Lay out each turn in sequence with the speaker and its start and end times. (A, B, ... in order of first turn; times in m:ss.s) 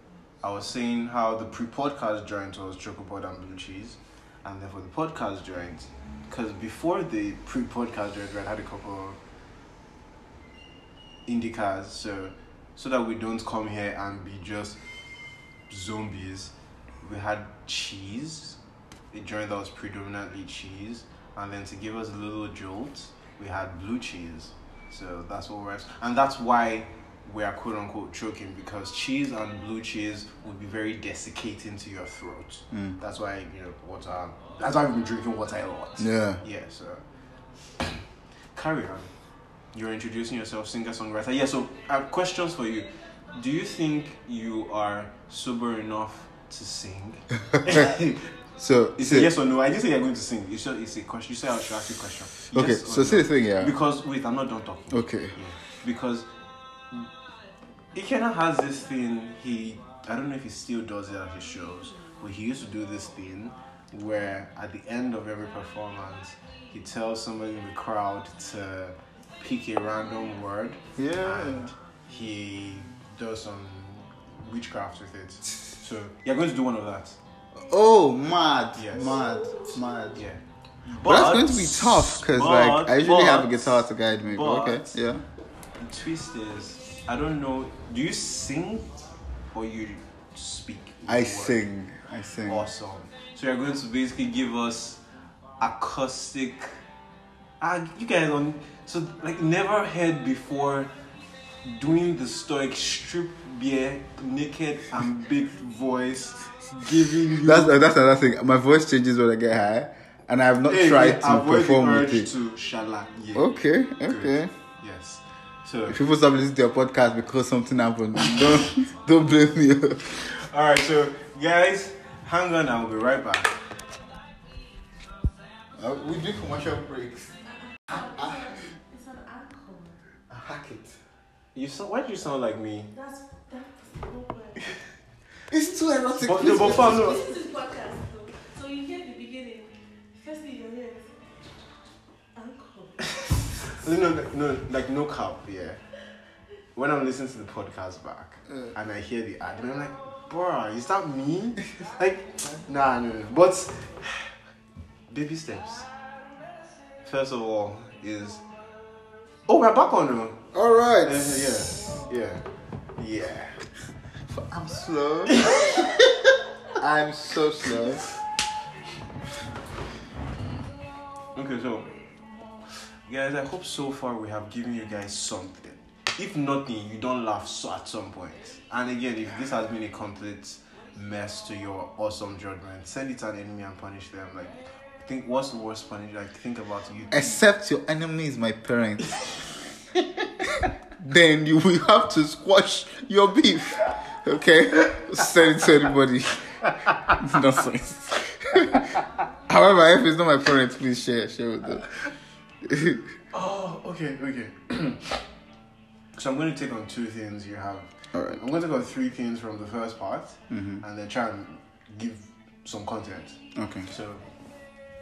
0:00.4-0:09.2 A
0:11.3-0:14.8 A
0:15.7-0:18.6 A
0:19.1-0:37.0 A
0:32.7-0:33.0 B
0:36.0-0:36.4 B
0:38.5-0:39.1 A
0:39.7-0:48.4 A
0:48.6-0:49.3 B
0:49.0-0:56.3 A
0:52.5-0:53.8 B
0:54.9-0:55.4 B
0:57.9-1:17.2 A
1:11.0-1:11.7 B
1:17.6-1:20.2 B
1:18.8-1:19.2 A
1:20.1-1:25.0 A
1:21.0-1:25.2 B
1:25.8-1:31.6 A
1:31.1-1:32.7 B
1:32.5-1:35.0 A
1:35.6-1:36.8 A
1:37.6-1:40.9 A
1:41.6-1:47.7 A
1:47.4-1:52.3 B
1:50.7-1:53.5 A
1:53.4-1:54.5 B
1:54.0-1:56.0 A
1:55.9-2:00.2 B
2:00.2-2:03.6 A
2:05.8-2:07.4 B
2:07.6-2:10.0 C
2:07.9-2:08.4 B
2:10.3-2:11.0 B
2:11.6-2:12.9 A
2:12.9-2:14.8 C
2:15.5-2:17.2 B
2:16.2-2:17.2 A
2:16.5-2:21.2 C
2:22.4-2:23.3 C
2:23.6-2:25.8 A
2:26.8-2:34.3 A
2:35.1-2:35.9 A
2:37.0-2:38.4 A
2:39.5-2:42.4 A
2:40.5-2:41.8 B
2:43.0-2:43.6 A
2:44.3-2:45.6 B
2:46.8-2:48.0 B
2:51.3-2:52.0 A
2:53.0-3:07.4 A
3:07.1-3:09.1 B
3:11.0-3:18.9 B
3:19.5-3:21.9 B
3:22.6-3:23.1 B
3:23.3-3:25.2 A
3:26.2-3:34.2 A
3:28.1-3:28.4 B
3:30.5-3:30.8 B
3:33.6-3:33.9 B